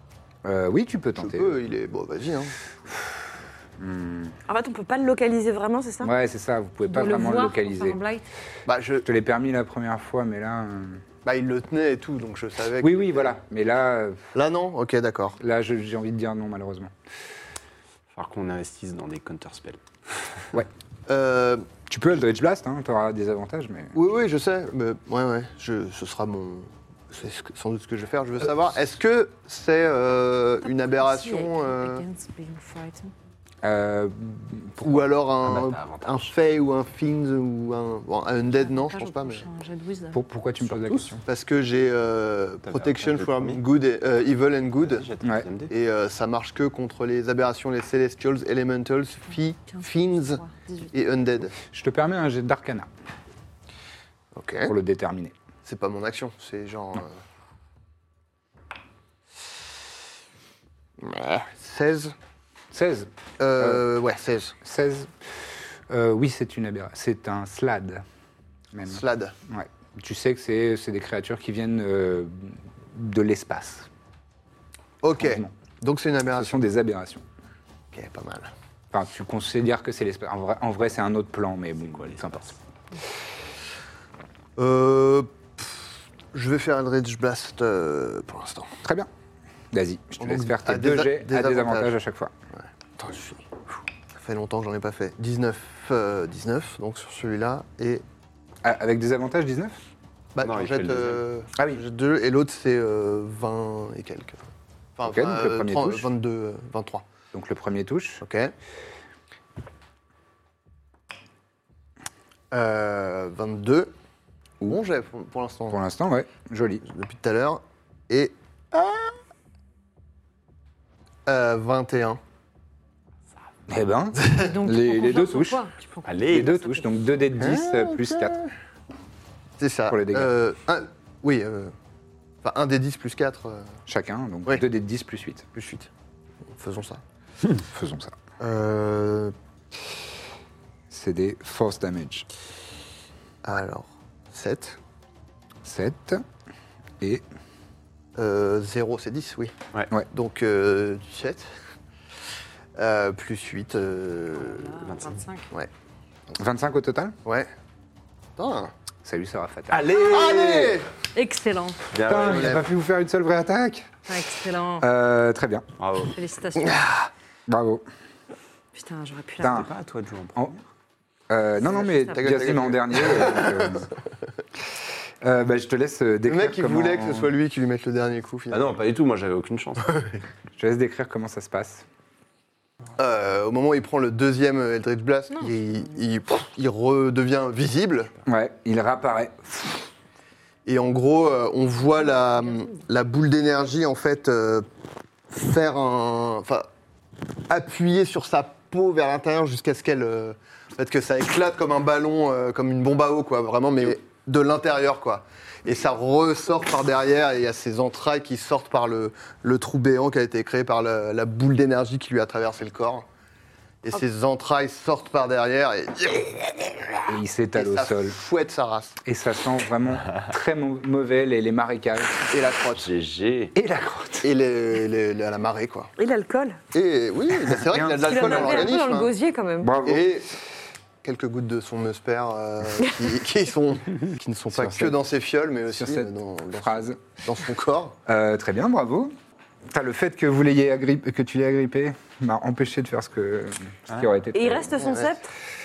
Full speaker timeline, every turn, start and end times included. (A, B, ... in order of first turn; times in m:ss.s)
0:00.4-0:01.6 A
0:01.2-0:02.5 B
0:03.8-0:04.4 A
0:04.5-0:06.1 C
0:06.0-0:08.0 A
0:06.9-0:08.2 D
0:08.6-0:09.0 B
0:09.0-0:11.0 A
0:11.2-0:13.3 B
0:12.8-0:14.2 A
0:14.3-0:15.4 B
0:15.4-0:16.9 A
0:18.1-0:19.8 E
0:21.1-0:21.7 B
0:21.9-0:23.9 A
0:23.9-0:32.0 B
0:30.6-0:33.1 D
0:33.6-0:35.7 A
0:34.8-0:39.4 B
0:35.6-0:36.0 E
0:38.5-0:40.2 D
0:40.1-0:41.2 A
0:40.6-0:41.1 E
0:41.2-0:45.1 B
0:42.6-0:43.6 E
0:44.8-0:45.7 E
0:45.7-0:51.6 B
0:49.7-0:50.9 D
0:51.7-0:52.9 A
0:54.3-0:54.7 B
0:54.6-0:55.3 A
0:55.6-0:57.1 B
1:01.0-1:02.1 B
1:02.7-1:03.8 A
1:03.4-1:04.5 B
1:04.6-1:08.0 A
1:08.7-1:13.9 A
1:08.9-1:09.3 B
1:15.0-1:16.6 B
1:15.2-1:15.5 A
1:16.3-1:17.2 A
1:17.9-1:18.5 B
1:18.9-1:22.5 A
1:22.0-1:22.2 E
1:24.6-1:28.7 B
1:28.8-1:29.1 A
1:29.7-1:32.3 A
1:30.2-1:31.9 B
1:32.5-1:33.4 B
1:34.1-1:38.0 B
1:38.6-1:39.8 A
1:40.3-1:47.0 B
1:40.4-1:41.2 E
1:45.0-1:46.1 A
1:47.3-1:48.2 A
1:48.2-1:48.5 B
1:52.5-1:53.9 B
1:54.6-1:55.8 B
1:55.7-1:56.8 A
1:56.8-1:59.0 B
2:01.2-2:02.2 B
2:03.7-2:05.6 A
2:04.2-2:06.9 D
2:06.0-2:06.5 E
2:06.3-2:08.4 A
2:07.4-2:08.4 B
2:09.6-2:11.7 B
2:09.9-2:10.3 A
2:12.4-2:13.7 B
2:13.9-2:15.4 A
2:15.5-2:15.9 B
2:16.5-2:17.0 B
2:17.6-2:18.2 A
2:18.4-2:19.3 B
2:20.9-2:22.3 A
2:23.4-2:24.8 B
2:25.6-2:26.2 A
2:28.2-2:29.5 B
2:30.1-2:31.5 B
2:32.8-2:34.7 B
2:34.4-2:35.5 D
2:34.8-2:35.2 E
2:36.4-2:37.2 A
2:37.2-2:37.5 B
2:38.4-2:38.7 B
2:39.0-2:39.9 A
2:39.7-2:40.8 E
2:39.9-2:40.9 B
2:41.1-2:41.8 D
2:41.9-2:42.6 E
2:42.1-2:43.9 A
2:42.1-2:42.6 B
2:44.1-2:44.9 D
2:44.8-2:45.6 A
2:45.8-2:46.1 E
2:46.1-2:46.8 D
2:46.7-2:46.9 B
2:47.5-2:47.8 A
2:48.7-2:49.6 D
2:49.4-2:49.7 A
2:49.5-2:50.5 E
2:51.3-2:53.9 A
2:51.7-2:54.0 B
2:55.2-2:57.3 A
2:56.3-2:58.7 B
2:58.5-3:00.1 E
3:00.6-3:01.8 A
3:03.0-3:08.1 B
3:08.3-3:09.9 A
3:10.6-3:14.7 B
3:15.3-3:16.7 B
3:17.5-3:33.0 B
3:33.8-3:37.0 B
3:37.1-3:38.2 A
3:37.6-3:39.0 B
3:39.0-3:42.2 A
3:42.3-3:42.8 B
3:42.8-3:43.5 E
3:43.5-3:44.3 A
3:44.2-3:45.9 B
3:46.0-3:46.6 C
3:46.7-3:49.1 B
3:47.6-3:48.7 A
3:48.0-3:49.8 C
3:49.6-3:50.0 A
3:49.8-3:50.3 B
3:51.0-3:58.0 B
3:54.5-3:55.0 A
3:55.7-3:57.0 A
3:58.1-3:59.1 A
3:59.6-4:04.9 A
4:04.3-4:05.3 C
4:04.8-4:05.1 B